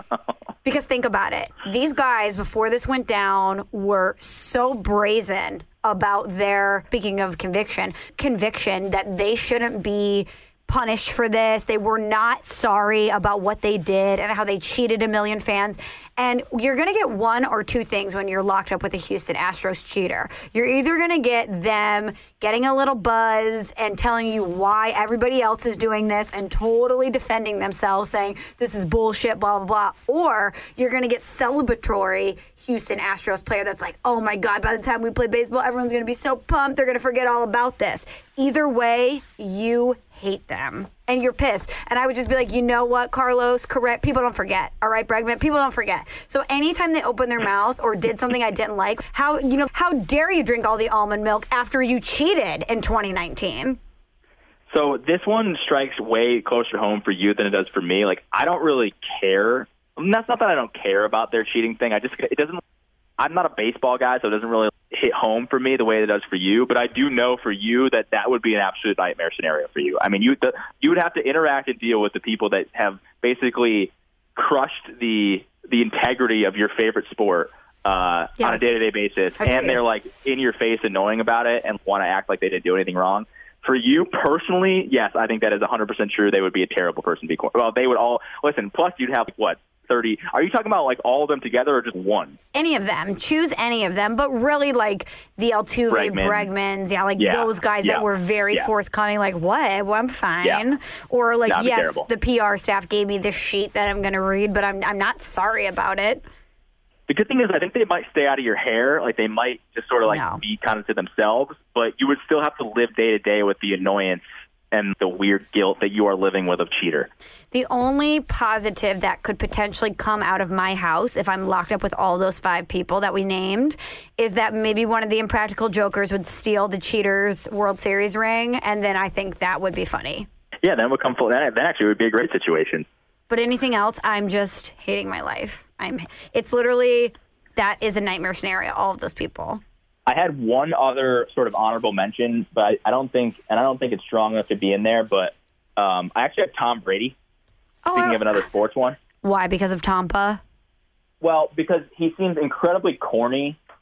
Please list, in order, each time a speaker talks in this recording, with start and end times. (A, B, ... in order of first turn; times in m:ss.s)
0:00.6-0:53.8 A
0:54.7-1:02.6 B
1:03.2-1:32.4 B
1:19.4-1:19.8 A
1:32.5-1:46.2 A
1:35.9-1:36.5 B
1:37.2-1:38.7 B
1:41.5-1:42.1 B
1:47.1-1:57.1 B
1:50.1-1:50.4 A
1:57.5-2:10.3 A
2:10.6-2:12.9 B
2:13.3-2:19.6 A
2:20.1-2:27.2 B
2:27.8-2:28.5 A
2:27.9-2:29.0 B
2:29.2-2:30.4 A
2:31.2-2:33.6 B